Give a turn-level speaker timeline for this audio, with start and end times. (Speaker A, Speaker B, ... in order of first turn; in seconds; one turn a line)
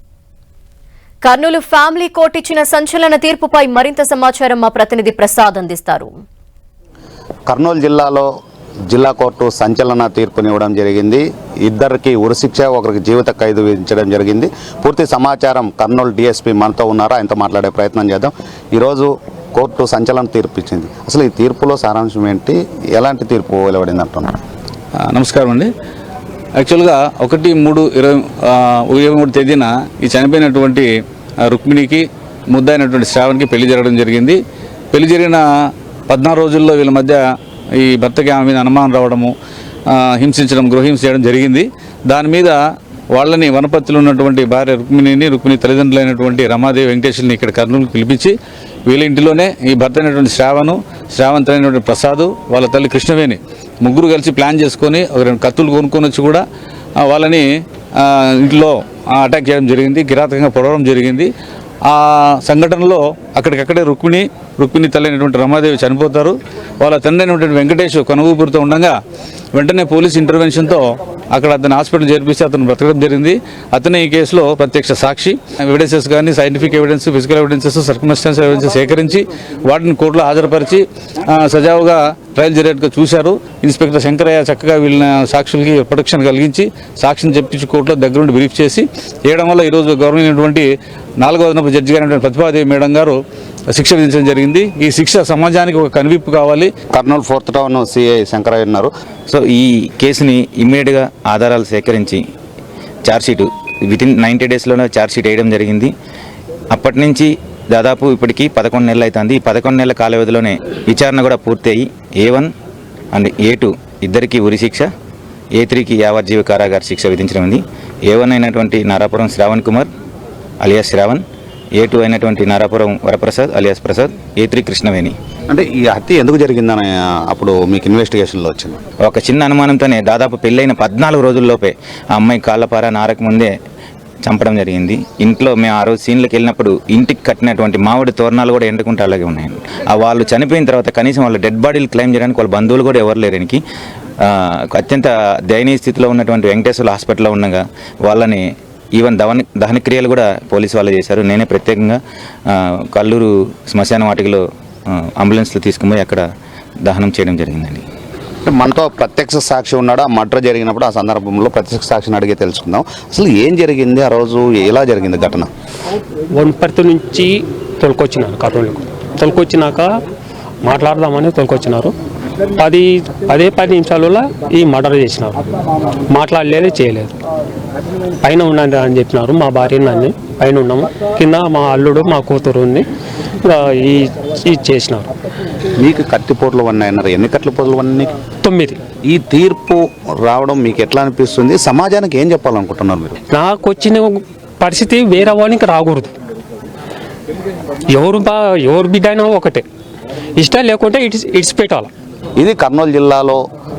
Speaker A: 1.2-6.1
Speaker B: 7.5-8.3
Speaker B: 8.9-24.4
Speaker C: 25.0-25.7
Speaker C: 26.6-30.9
Speaker C: 31.4-34.4
Speaker C: 34.9-37.2
Speaker C: 37.8-39.3
Speaker C: 39.9-42.6
Speaker C: 43.1-48.3
Speaker C: 48.9-56.4
Speaker C: 57.0-57.5
Speaker C: 58.0-61.3
Speaker C: 61.9-68.9
Speaker C: 69.5-90.7
Speaker C: 91.2-93.2
Speaker C: 93.7-96.7
Speaker B: 96.9-98.9
Speaker D: 99.3-102.2
Speaker D: 103.0-105.9
Speaker D: 106.7-112.5
Speaker D: 113.1-114.9
Speaker D: 115.5-119.9
Speaker D: 120.6-121.2
Speaker D: 121.8-125.1
Speaker B: 125.5-128.8
Speaker D: 129.0-133.5
Speaker D: 134.2-143.6
Speaker D: 144.2-156.2
Speaker D: 156.8-157.8
Speaker B: 158.4-165.5
Speaker E: 166.3-169.9
Speaker E: 170.6-171.9
Speaker E: 172.6-175.5
Speaker E: 176.1-177.1
Speaker E: 178.2-182.8
Speaker E: 183.4-185.1
Speaker B: 185.8-188.1
Speaker E: 188.4-188.8
Speaker B: 189.1-193.1
Speaker E: 193.3-196.1
Speaker E: 197.9-199.6
Speaker E: 200.4-201.9
Speaker B: 202.4-203.4